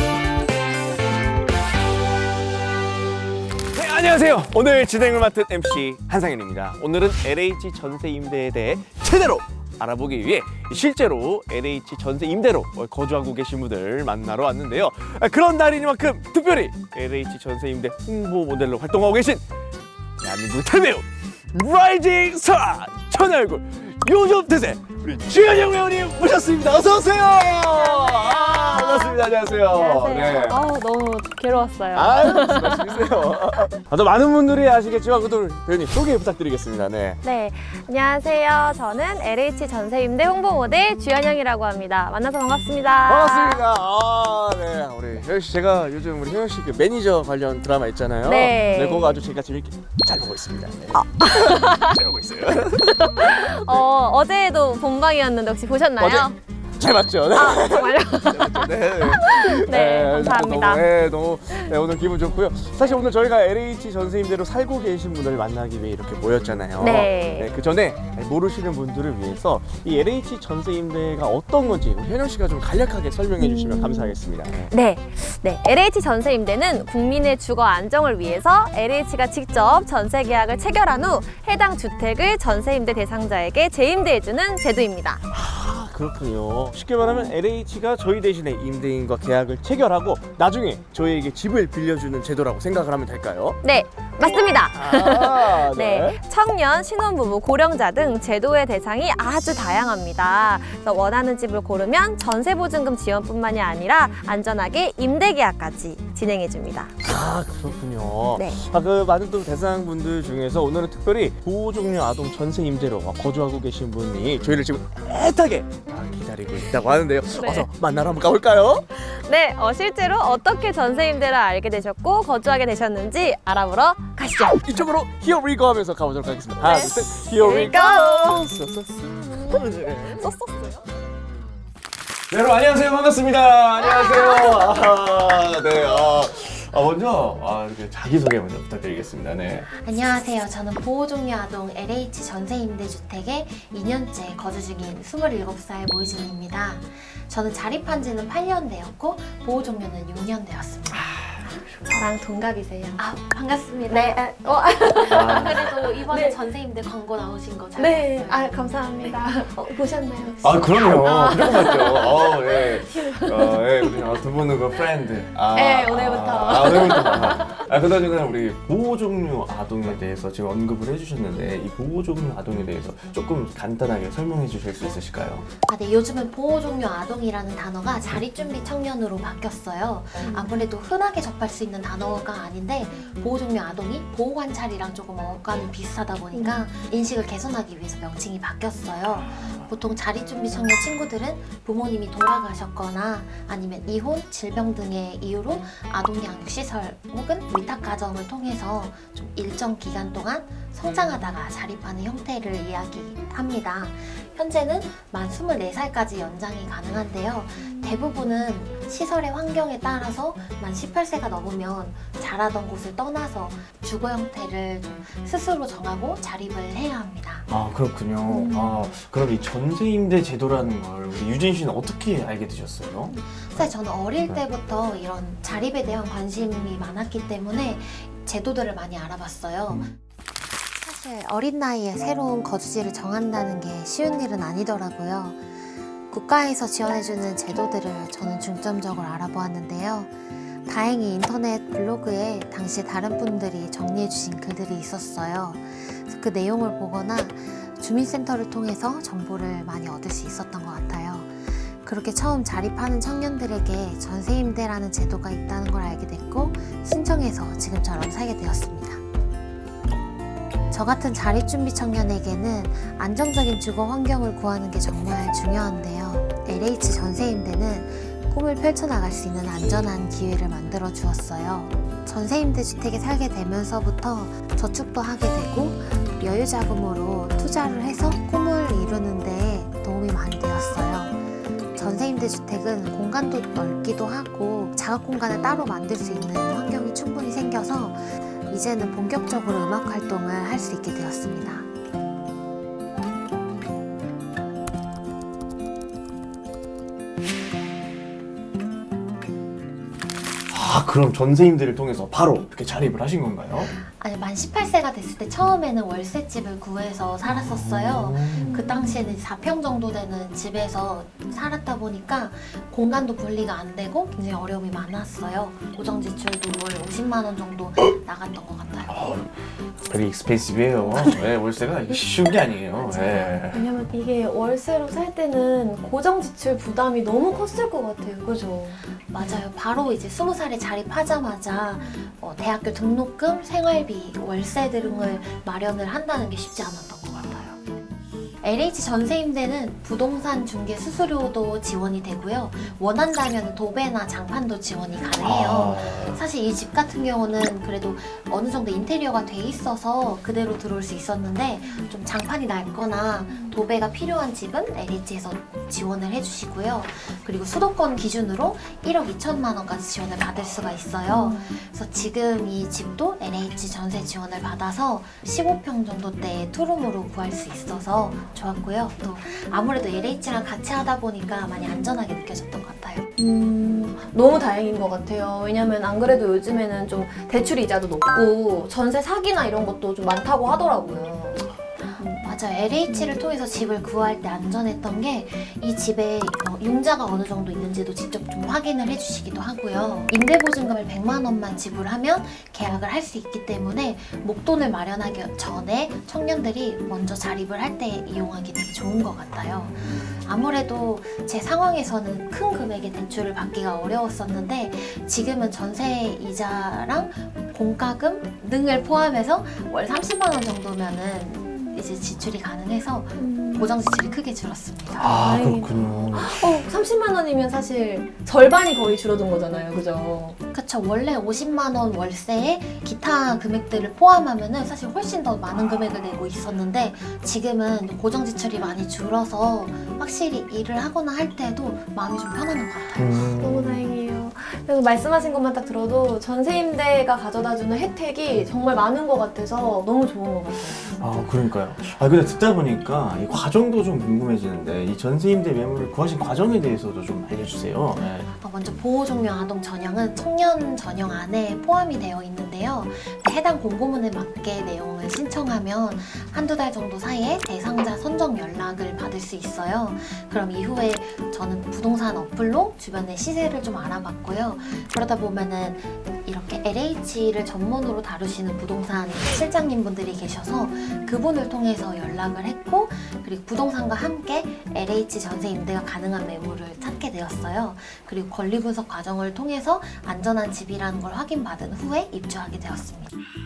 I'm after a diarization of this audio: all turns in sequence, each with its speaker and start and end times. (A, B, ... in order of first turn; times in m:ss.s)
0:03.7-0:19.4 A
0:20.2-0:30.6 A
0:27.8-0:33.6 B
0:31.9-0:37.2 A
0:37.2-0:43.6 B
0:43.1-0:53.8 A
0:48.2-0:49.2 B
0:50.9-0:52.0 B
0:52.8-0:56.4 B
0:56.0-1:14.7 A
0:57.3-1:00.9 B
1:06.8-1:07.5 B
1:13.4-1:14.2 B
1:14.7-1:25.2 B
1:25.3-1:33.6 A
1:33.6-1:46.9 B
1:34.7-1:36.2 A
1:47.0-1:58.9 A
1:48.3-1:48.6 B
1:57.3-1:57.7 B
1:58.9-2:04.7 B
2:04.6-2:10.2 A
2:06.6-2:08.4 B
2:10.1-2:10.8 B
2:12.3-2:19.7 A
2:13.8-2:14.6 B
2:19.8-2:31.2 C
2:31.2-2:31.7 A
2:31.9-2:33.0 B
2:33.0-2:34.2 C
2:33.9-2:36.4 B
2:34.9-2:39.2 C
2:35.1-2:35.7 A
2:37.8-2:44.1 B
2:40.4-2:55.5 A
2:45.5-2:47.6 B
2:55.7-3:37.5 C
3:00.2-3:00.5 B
3:06.3-3:06.6 B
3:37.5-3:43.7 A
3:38.2-3:38.8 B
3:43.3-3:49.9 C
3:50.8-3:55.4 C
3:56.1-4:00.1 C
4:00.6-4:19.0 C
4:20.7-4:51.7 C
5:00.5-5:03.7 A
5:03.7-5:19.1 C
5:07.2-5:08.6 A
5:08.4-5:09.1 B
5:18.9-5:19.3 A
5:19.8-5:23.7 A
5:22.8-5:23.4 C
5:23.5-5:29.4 B
5:29.1-5:37.6 C
5:38.4-6:13.1 C
5:45.2-5:46.2 A
6:01.1-6:01.5 B
6:13.2-6:21.5 B
6:21.9-6:55.1 C
6:22.0-6:22.3 B
6:22.9-6:23.2 B
6:53.2-6:53.7 B
6:55.0-6:56.7 A
6:55.0-7:00.4 B
7:00.5-7:13.3 C
7:12.9-7:13.8 A
7:13.4-7:21.0 B
7:21.0-7:28.3 A
7:28.2-8:03.1 C